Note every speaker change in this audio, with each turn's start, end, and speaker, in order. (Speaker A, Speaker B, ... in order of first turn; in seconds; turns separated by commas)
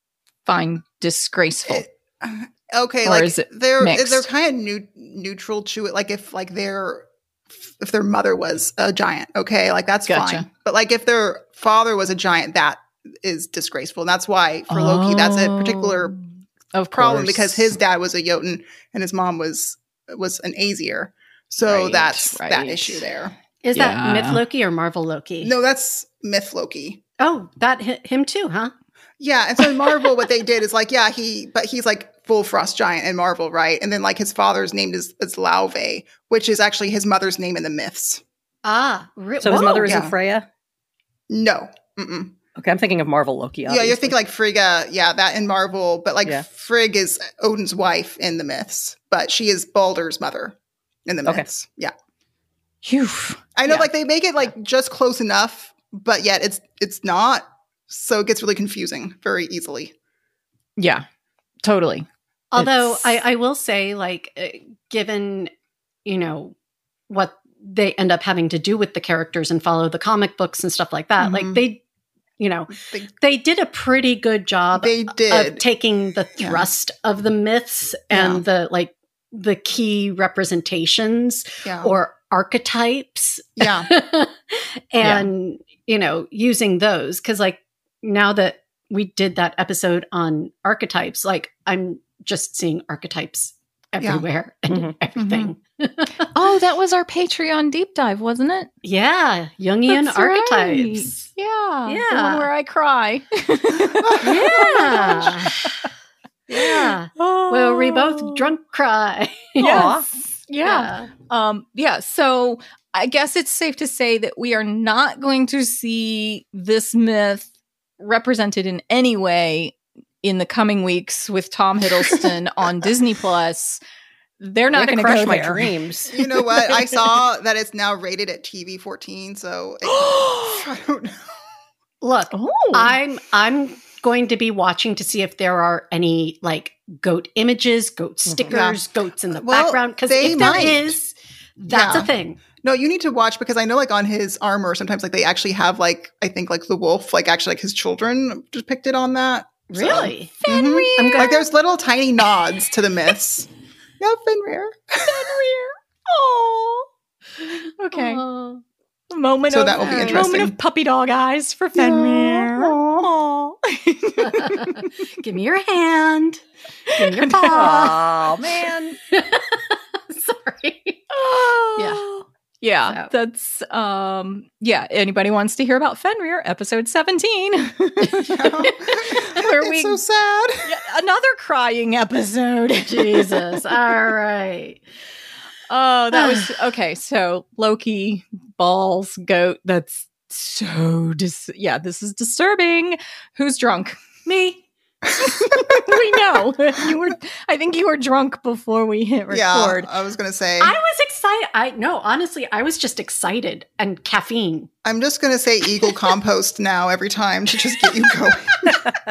Speaker A: 0.5-1.9, Speaker B: 1.7-16.2, Speaker A: 3.0-4.3, Speaker A: 10.1-10.5, Speaker A: 14.7-17.8, Speaker B: 16.9-23.3, Speaker A: 21.6-23.0, Speaker C: 23.6-25.5, Speaker A: 23.8-24.4, Speaker B: 25.4-27.0, Speaker C: 27.2-28.7, Speaker B: 29.2-38.2, Speaker C: 38.6-40.0, Speaker D: 39.4-40.5, Speaker B: 39.9-40.1, Speaker B: 41.3-42.4, Speaker D: 42.6-44.1, Speaker B: 43.7-51.9, Speaker A: 52.8-53.5, Speaker B: 53.6-59.9, Speaker A: 60.8-61.0, Speaker A: 61.6-63.1, Speaker C: 62.5-65.5, Speaker C: 66.0-66.5, Speaker C: 67.1-71.8, Speaker B: 71.2-71.6, Speaker C: 72.4-96.3, Speaker B: 72.8-73.1, Speaker B: 74.7-75.6, Speaker B: 76.4-76.7, Speaker B: 78.1-78.4, Speaker B: 81.6-81.9, Speaker B: 83.6-83.9, Speaker B: 94.0-94.2, Speaker B: 95.2-95.5, Speaker A: 96.2-98.7, Speaker C: 98.8-101.3, Speaker A: 99.9-105.8, Speaker C: 101.9-102.5, Speaker B: 103.9-105.0, Speaker C: 104.2-105.7, Speaker C: 106.5-110.0, Speaker A: 106.5-108.5, Speaker A: 109.6-123.8, Speaker D: 109.6-110.0, Speaker C: 110.6-111.1, Speaker A: 124.4-125.8, Speaker D: 124.7-126.1, Speaker B: 126.1-131.4, Speaker A: 129.9-130.7, Speaker C: 132.0-142.4, Speaker A: 132.3-133.0, Speaker D: 138.3-138.6, Speaker B: 138.5-141.0, Speaker B: 141.7-153.5, Speaker C: 149.7-150.4, Speaker A: 150.4-151.4, Speaker C: 151.0-151.4, Speaker B: 154.0-155.3, Speaker A: 155.1-156.9, Speaker A: 157.4-158.2, Speaker C: 157.9-158.6, Speaker A: 159.1-162.8, Speaker B: 159.5-160.5, Speaker C: 159.9-160.2, Speaker B: 161.8-162.7, Speaker D: 163.1-163.4, Speaker A: 163.6-164.8, Speaker C: 164.2-166.4, Speaker C: 166.9-168.1, Speaker A: 167.0-168.7, Speaker D: 167.5-169.0, Speaker C: 169.1-171.1, Speaker A: 171.1-180.0, Speaker C: 171.8-172.0, Speaker C: 172.9-173.1, Speaker B: 178.1-180.7, Speaker A: 180.7-183.6, Speaker C: 182.9-184.8, Speaker A: 185.7-194.0, Speaker C: 186.1-186.5, Speaker C: 194.2-194.7, Speaker A: 195.2-199.9, Speaker B: 195.2-195.8, Speaker B: 199.3-200.8, Speaker C: 200.6-204.7, Speaker B: 204.8-208.8